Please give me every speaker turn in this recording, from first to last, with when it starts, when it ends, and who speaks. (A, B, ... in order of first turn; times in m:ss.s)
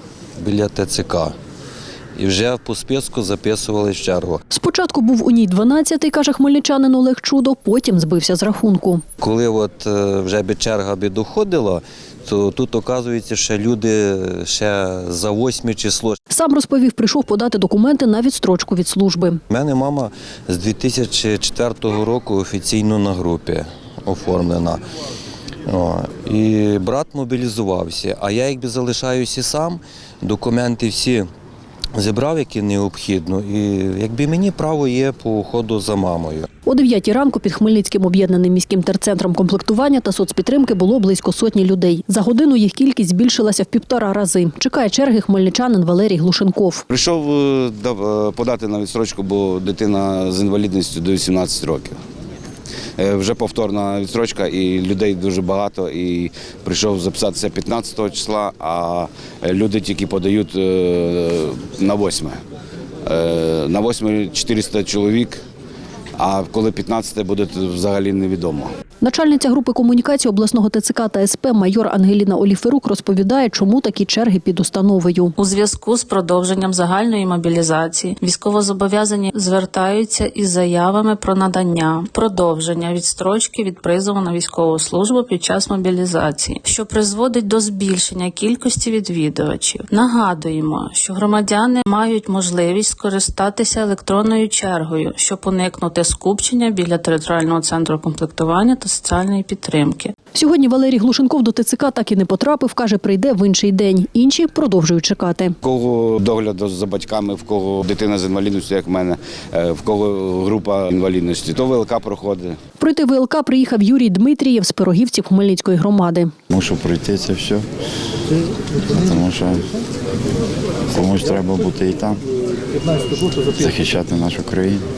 0:00.4-0:01.4 A
0:02.2-0:04.4 A
0:04.5-0:09.0 B
0:09.2-0:16.2 A
0:16.3-0:19.4 B
0:19.5-0:24.8 A
0:25.7-0:31.3 A
0:32.0-0:36.5 A
0:36.7-0:46.8 B
0:46.9-0:52.0 C
0:53.0-1:02.4 C
1:03.0-1:05.4 C
1:06.2-1:08.7 C
1:09.0-1:15.3 B
1:15.4-1:40.1 D
1:40.4-1:45.6 B
1:45.6-1:52.6 C
1:52.8-1:56.3 B
1:56.5-1:57.7 E
1:58.9-1:59.7 E
2:00.9-2:02.2 E
2:03.5-2:04.9 E